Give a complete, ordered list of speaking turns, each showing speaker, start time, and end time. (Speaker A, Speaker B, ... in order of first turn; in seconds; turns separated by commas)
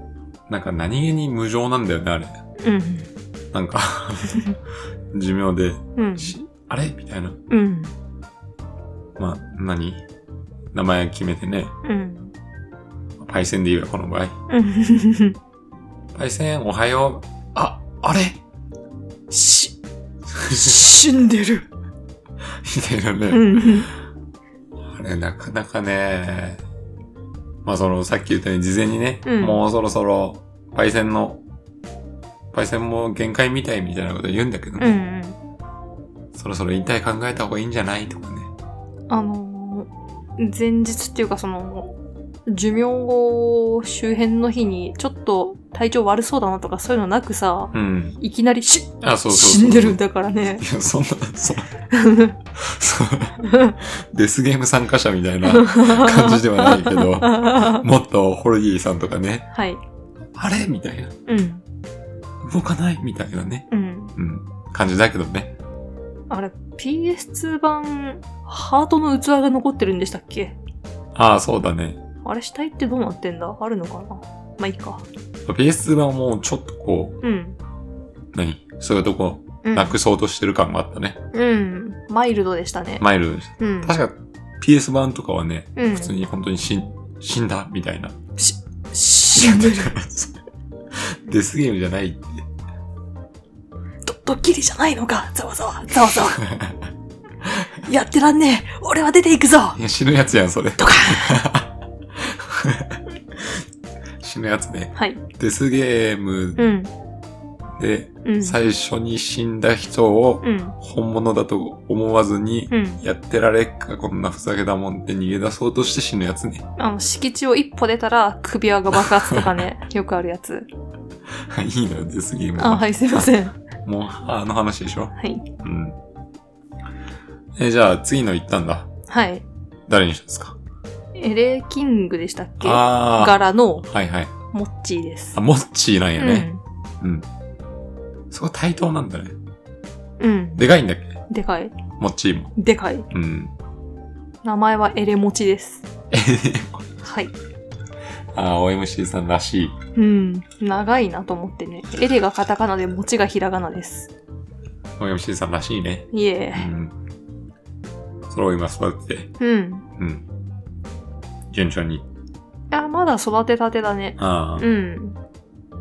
Speaker A: 0.5-2.4, Speaker B: 2.6-3.1, Speaker A: 3.5-4.5, Speaker A: 5.1-7.4, Speaker B: 6.0-6.3, Speaker B: 7.5-7.9, Speaker A: 9.2-10.0, Speaker A: 10.7-11.7, Speaker B: 11.8-12.3, Speaker A: 13.2-14.3, Speaker B: 14.5-15.4, Speaker A: 16.1-18.4, Speaker B: 19.3-19.8, Speaker A: 20.3-20.8, Speaker B: 20.5-21.7, Speaker A: 22.6-23.9, Speaker B: 23.3-23.9, Speaker A: 24.8-26.6, Speaker A: 27.6-31.4, Speaker B: 29.2-29.6, Speaker A: 32.5-35.0, Speaker B: 34.8-35.4, Speaker A: 36.3-38.5, Speaker B: 39.1-41.9, Speaker B: 42.5-50.6, Speaker A: 47.7-48.2, Speaker A: 49.0-50.0, Speaker A: 50.6-51.8, Speaker B: 51.9-52.4, Speaker A: 52.5-59.5, Speaker B: 53.4-53.8, Speaker B: 55.5-57.8, Speaker B: 59.5-59.8, Speaker A: 60.3-61.1, Speaker B: 61.3-61.6, Speaker A: 62.4-65.5, Speaker B: 63.7-64.1, Speaker B: 66.3-70.5, Speaker A: 71.1-72.0, Speaker B: 72.2-75.0, Speaker A: 75.5-77.2, Speaker B: 77.2-77.6, Speaker A: 78.3-81.2, Speaker B: 79.6-80.0, Speaker B: 81.3-83.0, Speaker A: 83.0-88.1, Speaker B: 83.6-83.9, Speaker B: 85.8-86.1, Speaker B: 88.4-89.9, Speaker A: 89.3-90.4, Speaker A: 90.9-92.4, Speaker B: 94.0-96.4, Speaker A: 96.5-96.7, Speaker B: 97.8-99.8, Speaker A: 99.8-103.6, Speaker B: 100.8-101.4, Speaker A: 104.2-106.7, Speaker B: 104.9-105.2, Speaker B: 106.6-106.9, Speaker A: 107.8-116.6, Speaker B: 108.2-108.5, Speaker B: 110.4-110.8, Speaker B: 112.7-113.0, Speaker B: 116.8-120.7, Speaker A: 119.1-119.6, Speaker A: 121.5-126.0, Speaker B: 122.6-123.5, Speaker B: 125.2-125.5, Speaker A: 127.5-128.9, Speaker B: 129.1-129.4, Speaker A: 129.9-130.6, Speaker B: 131.1-133.9, Speaker A: 132.6-134.3, Speaker B: 134.5-135.4, Speaker A: 135.3-136.5, Speaker B: 136.2-136.6, Speaker A: 137.0-137.3, Speaker A: 138.3-139.3, Speaker B: 140.2-140.6, Speaker A: 140.6-141.2, Speaker B: 141.3-141.8, Speaker A: 142.0-142.5, Speaker B: 142.6-143.1, Speaker A: 143.1-143.5, Speaker B: 144.4-145.8, Speaker A: 146.1-146.9, Speaker B: 147.0-147.3, Speaker A: 148.3-149.8, Speaker B: 149.9-154.1, Speaker A: 155.0-156.9, Speaker B: 156.1-156.7, Speaker A: 158.2-159.3, Speaker B: 159.4-159.8, Speaker A: 160.0-160.2, Speaker A: 161.5-162.1, Speaker B: 162.7-165.2, Speaker A: 164.2-164.7